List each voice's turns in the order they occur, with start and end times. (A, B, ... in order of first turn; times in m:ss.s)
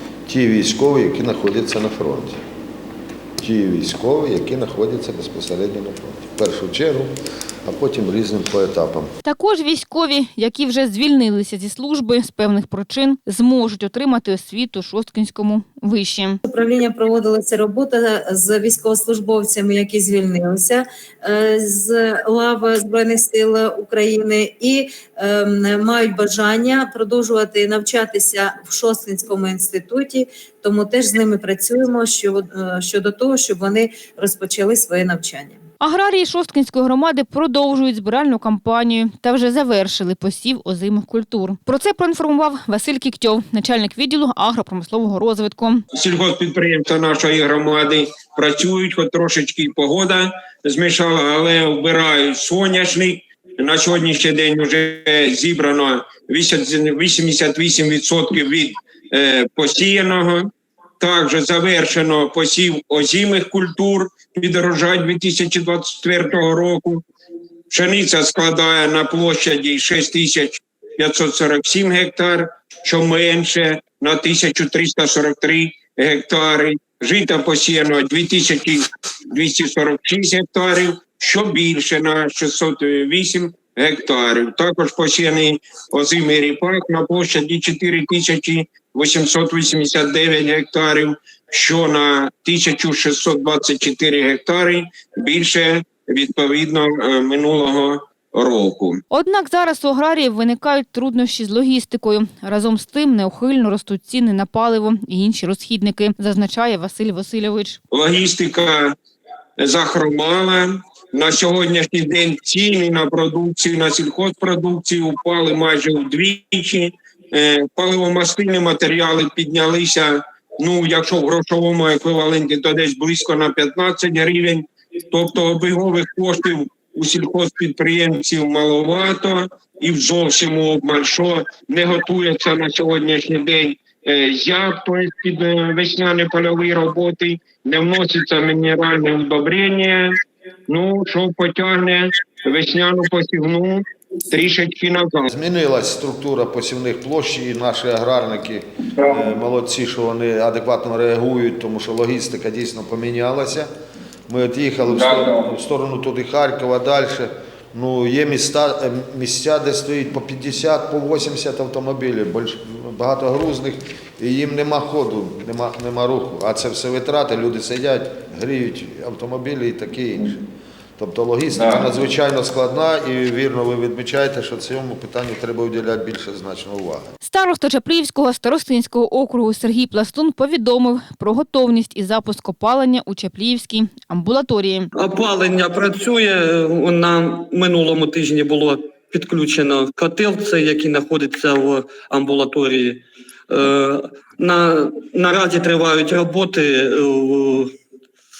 0:00.2-0:02.4 A
0:03.4-0:07.1 A
0:07.6-0:09.1 A
0:09.2-0:16.4 B
0:16.4-0:35.6 C
0:35.8-0:45.8 B
0:45.9-1:07.0 D
1:07.7-1:39.0 D
1:39.1-1:47.8 B
1:47.9-1:49.0 D
1:49.6-2:20.1 D
2:20.7-2:25.3 D
2:25.3-2:33.7 A
2:34.3-2:50.4 A
2:34.9-2:35.5 D
2:51.0-2:57.1 A
2:57.2-3:04.9 B
3:04.9-3:17.7 E